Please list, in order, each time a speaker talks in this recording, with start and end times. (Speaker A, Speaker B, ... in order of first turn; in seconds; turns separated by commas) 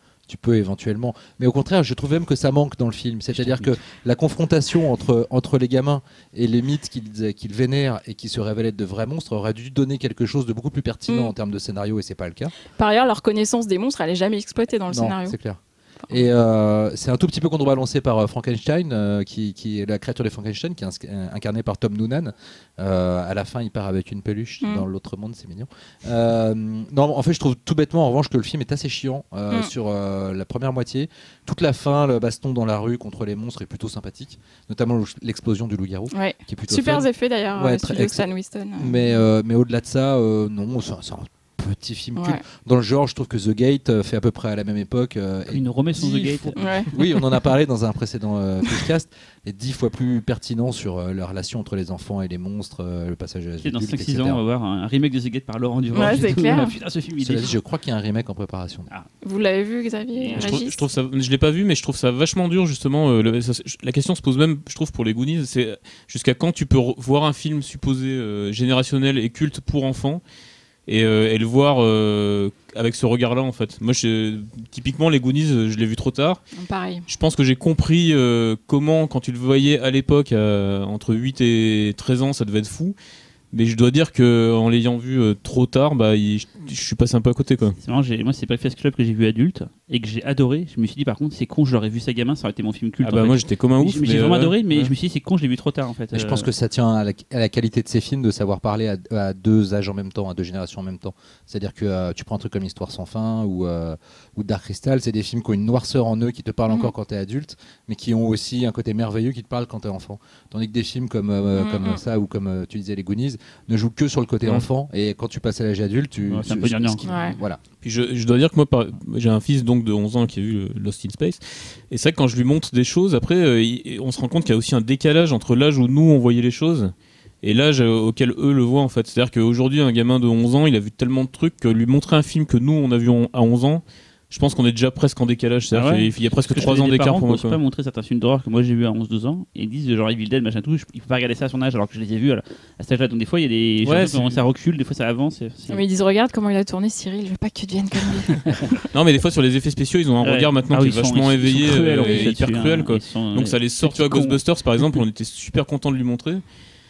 Speaker A: 0.3-12.5, Speaker B: 3.4-3.7, Speaker C: 12.7-15.4, Speaker A: 14.9-54.4, Speaker C: 36.1-39.2, Speaker C: 42.2-42.4, Speaker B: 45.5-47.0, Speaker C: 46.6-46.9, Speaker B: 53.6-57.5, Speaker C: 56.0-56.7, Speaker A: 57.2-58.9, Speaker C: 59.2-60.8, Speaker B: 60.2-60.6, Speaker D: 60.3-70.2, Speaker D: 70.9-76.4, Speaker C: 76.5-77.1, Speaker D: 77.1-83.0, Speaker D: 83.5-87.8, Speaker B: 87.8-96.5, Speaker D: 93.0-94.9, Speaker A: 96.1-117.6, Speaker C: 111.5-112.0, Speaker B: 116.3-117.0, Speaker C: 117.0-117.4, Speaker D: 117.8-137.6, Speaker B: 135.7-145.8, Speaker D: 143.8-144.4, Speaker C: 145.7-148.6, Speaker D: 148.9-156.4, Speaker B: 150.2-154.4